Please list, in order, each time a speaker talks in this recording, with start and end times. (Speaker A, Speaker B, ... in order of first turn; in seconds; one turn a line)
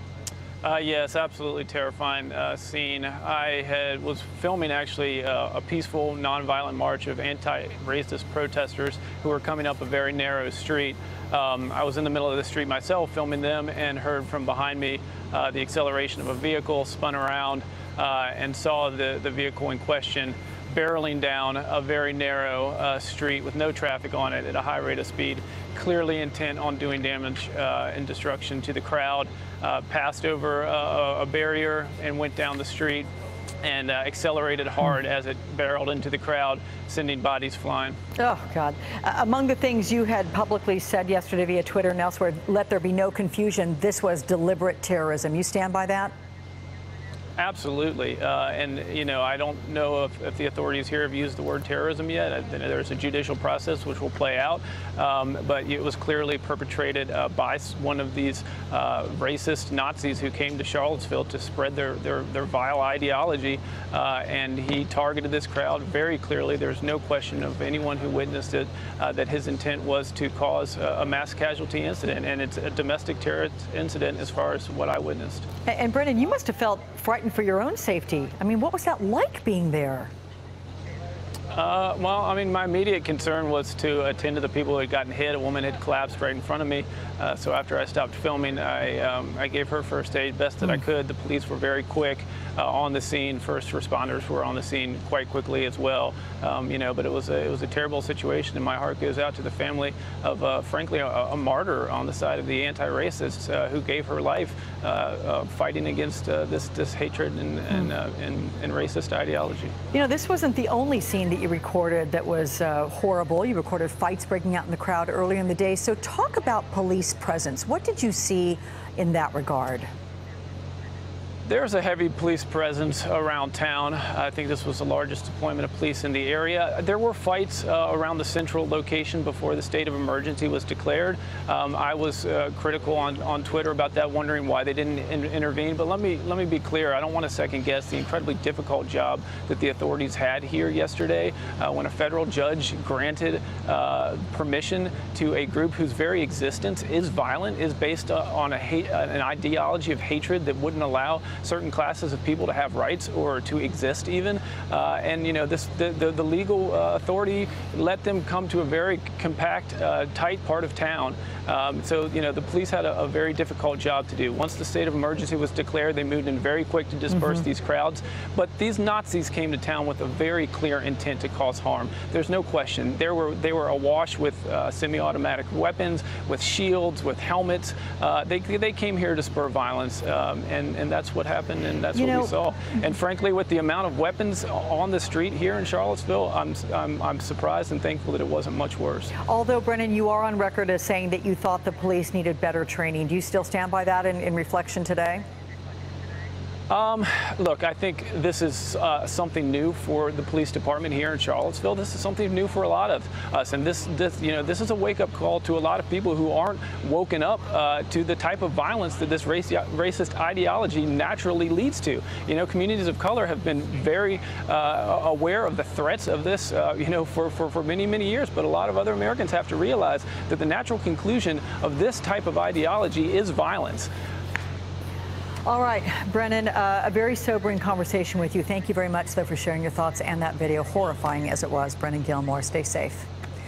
Speaker A: 0.6-33.1
Speaker A: 33.6-38.0
Speaker B: 38.2-46.1
Speaker A: 47.4-75.5
Speaker B: 75.7-80.1
Speaker A: 81.5-109.7
Speaker B: 109.9-119.9
Speaker A: 121.5-189.2
Speaker B: 181.9-182.3
Speaker B: 189.2-195.2
Speaker A: 196.7-223.9
Speaker B: 225.5-233.1